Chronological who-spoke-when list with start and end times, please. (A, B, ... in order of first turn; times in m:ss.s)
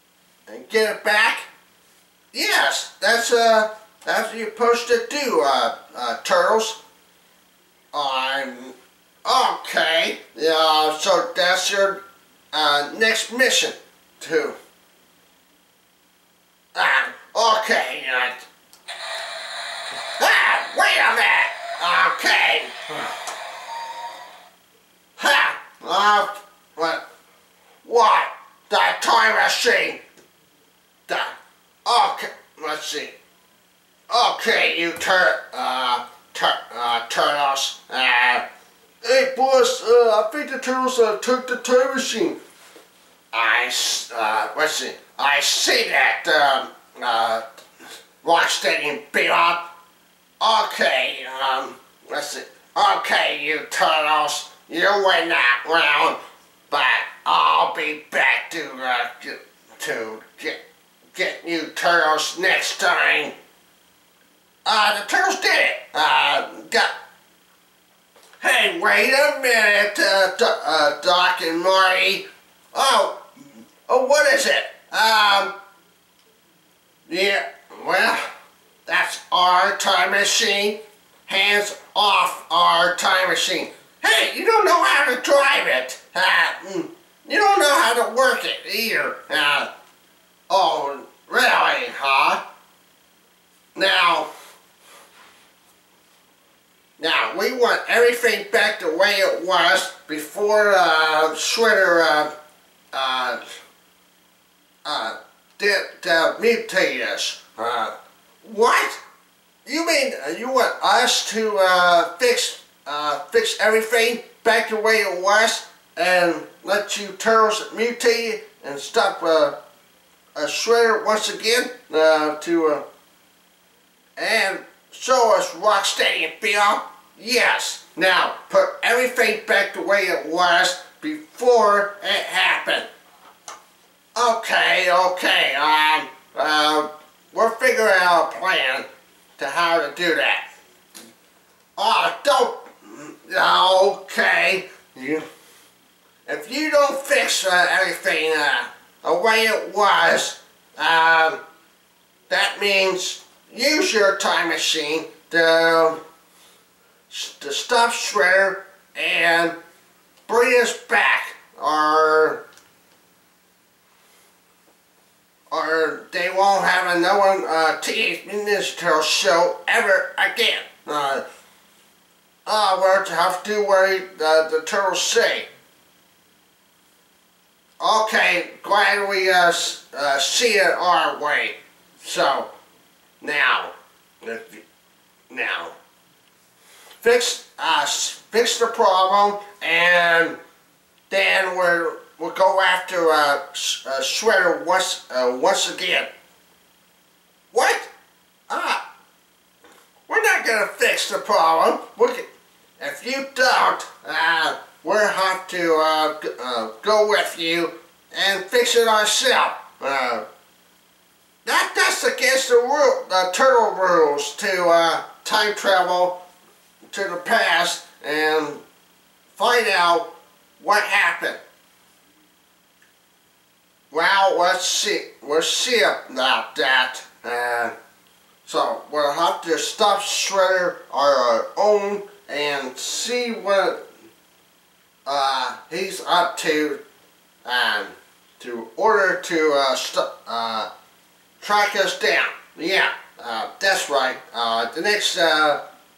0:00.5-0:01.5 A
0:02.3-0:06.8 A
0:07.9-0:12.0 A
0:12.5-0:14.6 A
0:16.7-0:18.4 A
0:20.1-0:23.0 A
0:25.2-0:27.0 A
0:27.8-0:30.0 A
0:31.1-0:33.1 A
0:34.1-0:38.4 A
0:39.0-0:42.4 A
0:43.3-0:47.5 A
0:48.2-0:49.7 A
0:50.4-0:56.2 A
0:56.7-1:00.6 A
1:01.1-1:03.3 A
1:04.6-1:06.9 A
1:08.4-1:13.2 A
1:13.8-1:15.5 A
1:17.1-1:18.3 A
1:18.8-1:29.7 A
1:30.5-1:32.4 A
1:33.7-1:34.3 A
1:37.0-1:42.3 A
1:42.9-1:43.4 A
1:44.8-1:49.0 A
1:49.6-1:59.6 A
2:00.3-2:02.8 A
2:04.2-2:12.8 A
2:14.1-2:18.8 A
2:19.4-2:20.4 A
2:21.8-2:25.2 A
2:26.2-2:31.4 A
2:32.3-2:36.0 A
2:37.1-2:39.6 A
2:40.3-2:42.4 A
2:45.5-2:51.2 A
2:52.4-2:55.5 A
2:57.8-3:02.5 A
3:03.2-3:04.6 A
3:05.3-3:05.8 A
3:07.0-3:10.4 A
3:11.1-3:16.1 A
3:17.5-3:17.9 A
3:18.5-3:18.8 A
3:20.1-3:22.2 A
3:22.8-3:30.2 A
3:31.4-3:36.2 A
3:36.9-3:38.6 A
3:39.3-3:41.4 A
3:43.9-3:47.7 A
3:48.4-3:53.8 A
3:55.0-3:56.8 A
3:57.4-4:00.7 A
4:01.4-4:05.6 A